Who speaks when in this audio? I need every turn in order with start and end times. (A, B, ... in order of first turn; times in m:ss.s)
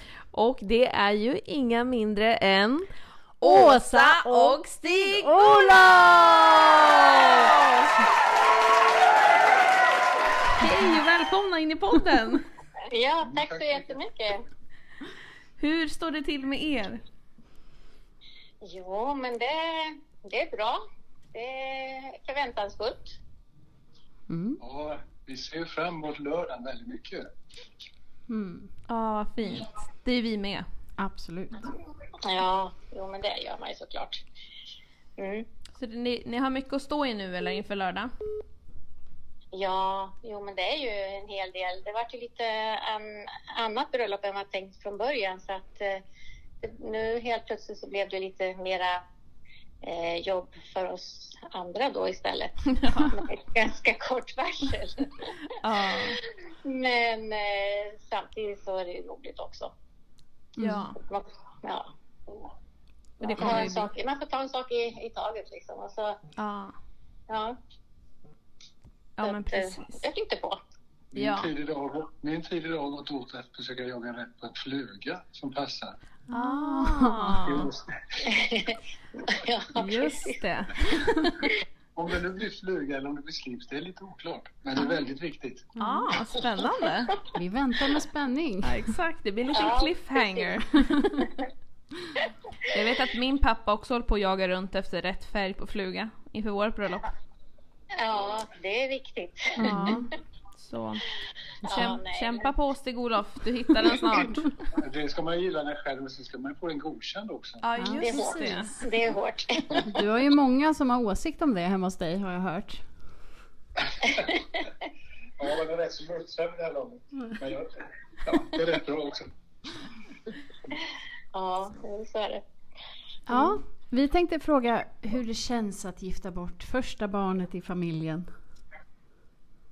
0:00.1-0:05.5 A
0:03.4-0:06.9 B
0:06.9-0:07.9 A
0:10.5-0:12.4 A
0:12.9-0:14.4 C
0:13.3-0:13.6 D
0:15.6-0:17.0 A
0:18.6-0:20.8 C
0:21.3-0:23.2 C
0:24.3-0:24.6 B
0:24.6-0:27.3 D
0:28.3-0:28.7 B
0:28.9-0:30.6 A
0:31.0-0:31.7 B
0:32.2-0:34.2 C
0:35.2-0:35.5 C
0:35.7-0:38.1 A
0:39.5-0:46.0 C
0:46.6-0:49.0 C
0:49.8-0:55.3 C
0:52.8-0:53.1 A
0:55.5-0:56.2 A
0:56.6-0:59.7 C
1:00.6-1:00.8 B
1:00.6-1:01.0 A
1:01.0-1:02.5 C
1:03.2-1:03.9 A
1:03.2-1:06.2 C
1:06.4-1:06.7 A
1:07.3-1:07.6 C
1:09.2-1:10.0 A
1:09.2-1:10.6 C
1:11.1-1:16.0 D
1:11.2-1:11.5 A
1:16.3-1:17.5 B
1:16.3-1:17.7 A
1:17.4-1:18.3 D
1:18.2-1:20.4 C
1:19.7-1:21.1 A
1:21.9-1:25.7 D
1:25.8-1:26.1 B
1:25.8-1:27.2 A
1:27.3-1:28.9 B
1:28.6-1:31.3 A
1:29.5-1:30.6 C
1:32.7-1:37.1 A
1:38.0-1:40.0 C
1:39.6-1:40.0 B
1:39.6-1:41.0 A
1:41.6-1:42.0 B
1:41.6-1:42.5 C
1:41.7-1:44.5 A
1:44.7-1:47.6 D
1:47.6-1:48.8 A
1:47.8-1:48.7 B
1:48.0-1:49.9 C
1:49.8-1:52.8 B
1:53.9-1:54.4 D
1:55.4-1:59.3 D
2:01.3-2:02.4 C
2:03.3-2:08.2 B